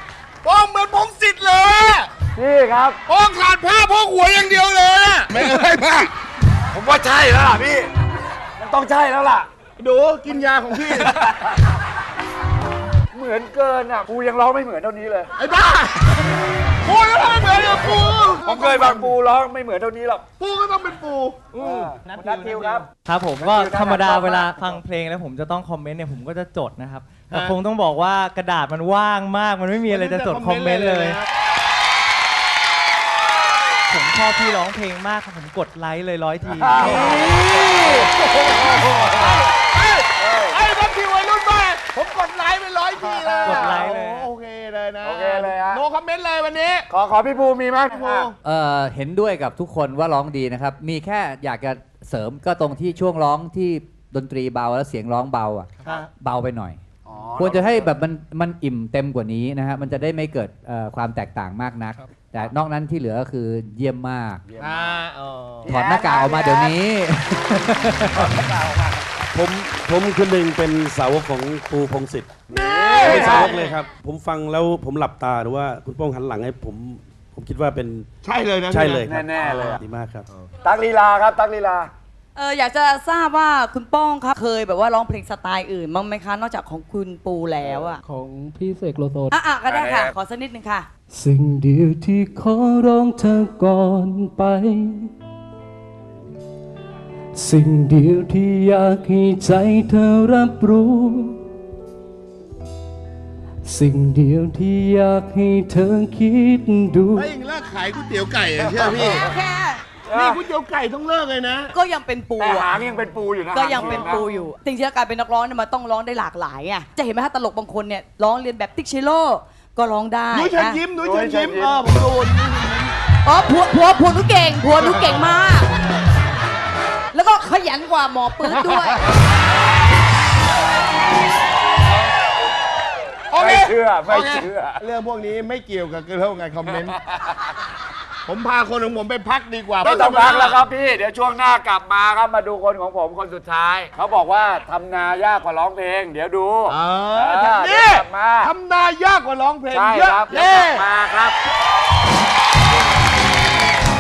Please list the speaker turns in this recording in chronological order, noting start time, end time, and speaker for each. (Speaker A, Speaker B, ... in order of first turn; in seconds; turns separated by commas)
Speaker A: 0.4-2.1, Speaker B: 2.4-3.0, Speaker A: 3.1-6.1, Speaker B: 6.7-7.9, Speaker B: 8.6-9.5, Speaker A: 9.8-11.2, Speaker B: 10.8-11.3, Speaker B: 13.1-15.3, Speaker A: 15.4-16.1, Speaker A: 16.9-19.1, Speaker B: 17.5-20.2, Speaker A: 20.4-22.8, Speaker B: 21.6-24.8, Speaker C: 23.0-31.2, Speaker A: 29.9-31.2, Speaker C: 33.9-37.2, Speaker B: 36.5-39.0, Speaker A: 37.4-38.1, Speaker A: 38.6-39.1, Speaker A: 39.8-46.9, Speaker B: 40.2-40.6, Speaker B: 43.1-43.9, Speaker C: 43.5-44.3, Speaker B: 45.0-45.9, Speaker B: 46.9-48.3, Speaker A: 47.9-48.3, Speaker D: 48.4-56.8, Speaker B: 57.1-57.9, Speaker D: 57.4-64.4, Speaker B: 64.5-65.0, Speaker A: 64.6-65.7, Speaker B: 65.6-66.8, Speaker D: 65.7-68.3, Speaker B: 68.2-69.0, Speaker E: 69.3-72.4, Speaker B: 72.5-73.7, Speaker A: 72.5-73.7, Speaker E: 73.1-78.1, Speaker A: 78.2-79.0, Speaker E: 78.7-80.3, Speaker B: 79.0-79.8, Speaker B: 80.6-81.9, Speaker F: 82.4-88.0, Speaker G: 88.0-89.3, Speaker F: 89.3-90.9, Speaker B: 89.6-90.2, Speaker G: 91.2-94.9, Speaker G: 97.4-101.3, Speaker G: 103.7-107.2, Speaker A: 107.1-109.3, Speaker B: 108.6-109.1, Speaker F: 109.2-109.8, Speaker B: 110.1-110.5, Speaker A: 110.1-111.8, Speaker F: 111.7-112.8, Speaker B: 112.4-114.4, Speaker F: 113.5-120.9, Speaker A: 113.8-114.1, Speaker A: 120.3-122.9, Speaker B: 120.9-122.0, Speaker F: 123.2-125.7, Speaker F: 127.1-129.0, Speaker A: 133.3-137.0, Speaker B: 133.3-134.8, Speaker A: 138.3-140.6, Speaker B: 139.8-148.6, Speaker A: 146.7-150.9, Speaker B: 149.7-151.4